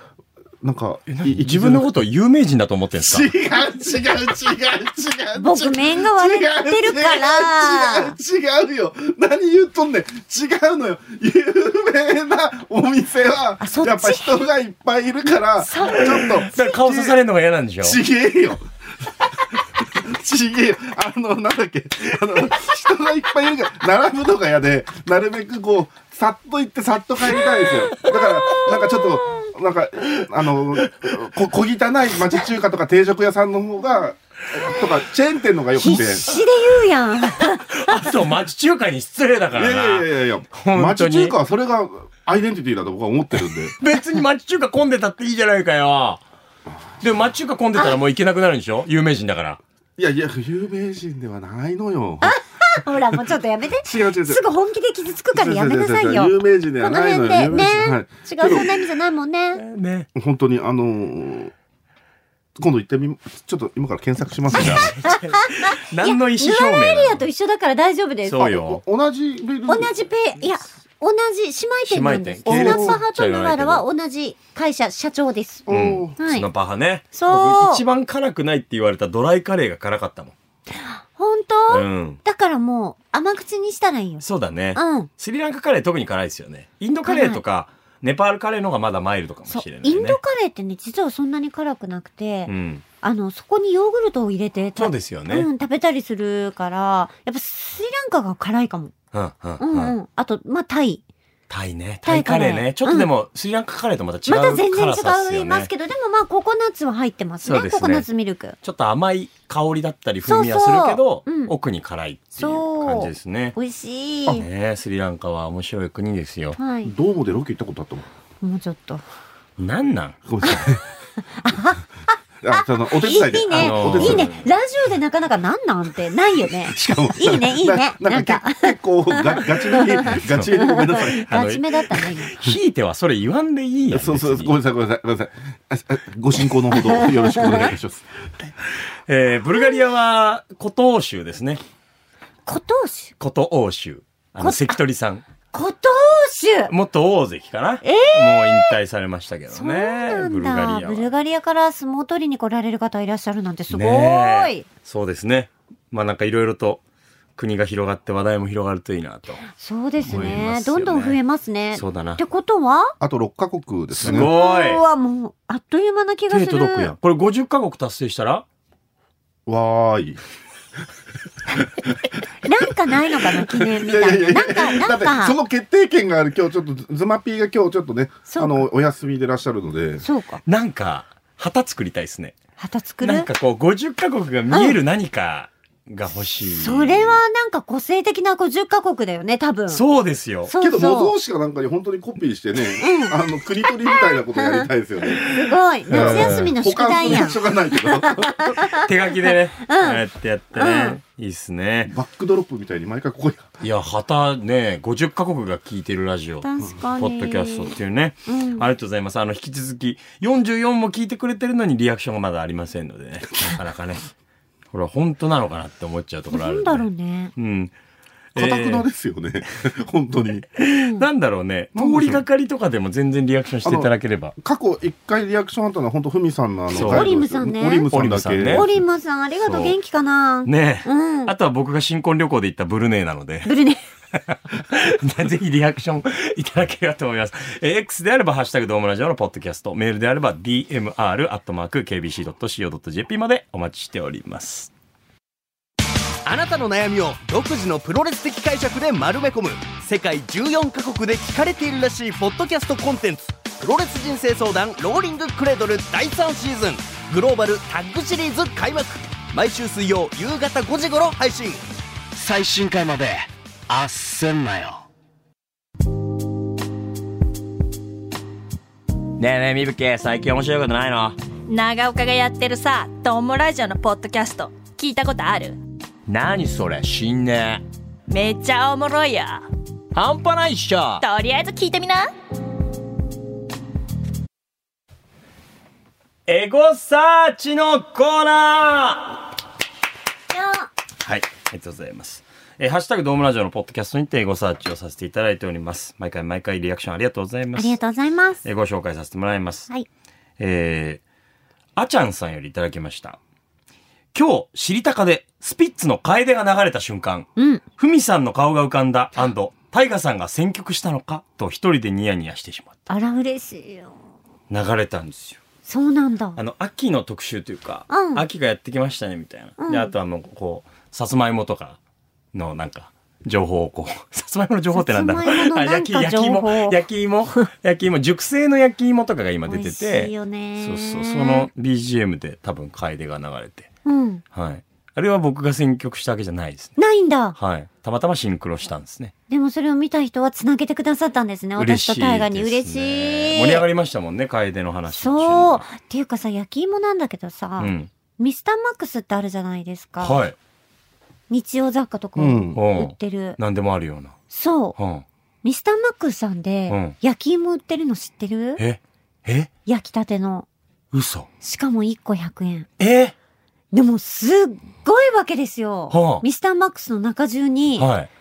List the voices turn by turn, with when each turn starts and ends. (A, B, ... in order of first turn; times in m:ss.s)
0:00.6-0:02.0 A
0:01.1-0:03.3 B
0:03.0-0:17.2 A
0:05.4-0:08.2 C
0:13.6-0:14.4 C
0:15.6-0:16.2 C
0:16.2-0:18.0 B
0:17.8-0:36.3 A
0:28.6-0:29.4 C
0:35.8-0:38.1 C
0:37.7-0:41.4 B
0:39.5-0:43.8 A
0:43.8-0:46.2 B
0:47.0-0:49.6 B
0:50.0-0:52.4 A
0:52.2-0:59.6 C
0:53.8-0:54.4 A
0:55.3-0:58.8 A
0:59.6-1:00.1 B
1:00.2-1:01.5 A
1:02.6-1:05.0 A
1:04.5-1:07.2 B
1:04.6-1:08.6 C
1:08.2-1:08.8 B
1:08.6-1:09.9 A
1:09.7-1:16.5 C
1:11.9-1:13.8 B
1:12.5-1:13.0 A
1:15.7-1:16.2 A
1:15.7-1:20.3 B
1:17.1-1:17.8 C
1:20.8-1:25.1 C
1:21.7-1:22.2 B
1:24.2-1:30.2 B
1:27.1-1:27.4 C
1:29.5-1:38.9 C
1:32.5-1:32.8 B
1:34.8-1:35.5 B
1:39.1-1:40.0 B
1:39.6-1:41.0 C
1:41.5-1:45.7 B
1:42.0-1:43.1 C
1:44.3-1:48.6 C
1:47.4-1:48.1 B
1:48.6-1:53.6 B
1:50.3-1:51.5 C
1:52.4-1:54.4 C
1:54.4-1:56.6 B
1:56.6-1:56.9 C
1:56.8-1:58.1 A
1:58.4-1:59.0 C
1:59.6-2:00.2 B
2:00.3-2:00.8 A
2:01.4-2:12.4 C
2:02.4-2:04.3 A
2:03.5-2:04.4 B
2:06.7-2:11.2 A
2:10.2-2:14.6 B
2:13.9-2:18.1 A
2:17.0-2:17.7 C
2:19.1-2:21.6 B
2:22.5-2:23.1 C
2:23.2-2:25.2 B
2:24.4-2:24.8 C
2:25.5-2:26.7 C
2:26.7-2:31.1 B
2:27.8-2:28.8 C
2:29.5-2:34.7 C
2:33.7-2:36.8 B
2:37.4-2:39.5 B
2:39.6-2:43.0 C
2:40.0-2:41.2 B
2:41.7-2:42.2 B
2:43.0-2:44.3 A
2:43.9-2:44.8 B
2:44.0-2:46.9 C
2:46.3-2:48.4 B
2:49.5-2:50.2 A
2:52.4-2:55.4 C
2:53.4-3:00.0 A
2:58.3-2:58.7 C
3:00.0-3:00.4 C
3:00.5-3:02.4 B
3:02.6-3:03.3 C
3:03.0-3:07.2 B
3:04.5-3:04.8 C
3:06.5-3:09.8 C
3:09.7-3:10.5 B
3:10.5-3:11.2 C
3:10.6-3:15.3 A
3:12.8-3:13.2 C
3:13.9-3:14.7 C
3:15.2-3:20.0 C
3:15.9-3:18.8 A
3:15.9-3:16.5 B
3:18.8-3:21.9 B
3:20.5-3:21.0 C
3:21.9-3:23.6 A
3:23.6-3:34.1 B
3:26.4-3:27.8 C
3:28.3-3:28.7 C
3:34.7-3:37.7 B
3:36.3-3:37.3 C
3:38.4-3:38.8 B
3:38.4-3:40.5 A
3:40.6-3:44.4 B
3:40.7-3:41.0 C
3:41.8-3:42.2 A
3:43.6-3:48.7 A
3:46.7-3:47.1 B
3:46.8-3:47.9 C
3:47.9-3:48.7 B
3:48.5-3:51.3 C
3:49.5-3:49.8 B
3:50.4-3:53.5 B
3:53.5-3:53.8 C
3:54.2-4:04.7 B
4:06.2-4:21.6 D
4:22.1-4:24.9 E
4:29.2-4:31.2 B
4:31.5-4:35.6 F
4:36.1-4:37.6 B
4:38.1-4:39.4 F
4:40.0-4:41.0 B
4:41.0-4:42.1 F
4:46.3-4:49.2 B
4:50.3-4:50.7 C
4:51.0-4:57.8 B
4:57.6-4:58.4 C
4:58.4-4:59.7 B
5:00.4-5:01.0 B
5:01.8-5:03.2 B
5:04.1-5:12.8 B
5:07.4-5:07.6 C
5:12.9-5:14.0 C
5:14.5-5:15.4 B
5:15.7-5:16.4 C
5:16.4-5:21.8 B
5:17.9-5:18.2 C
5:19.6-5:19.9 C
5:22.3-5:33.7 B
5:24.7-5:26.8 C
5:29.5-5:31.5 C
5:33.8-5:34.2 C
5:34.3-5:36.7 B
5:36.8-5:37.4 C
5:37.4-5:39.1 B
5:39.3-5:43.6 C
5:41.6-5:45.7 B
5:44.9-5:50.2 C
5:47.6-5:47.9 B
5:50.0-5:50.4 B
5:51.3-5:53.4 C
5:52.2-5:52.6 A
5:52.6-5:54.2 B
5:54.3-5:54.8 C
5:54.8-5:55.0 B
5:55.4-5:58.6 C
5:56.7-5:57.0 B
5:58.6-5:59.5 B
5:59.7-6:00.5 C
6:00.9-6:01.3 B
6:01.4-6:02.7 C
6:02.8-6:03.1 B
6:03.7-6:07.9 C
6:05.9-6:06.2 B
6:07.8-6:08.1 B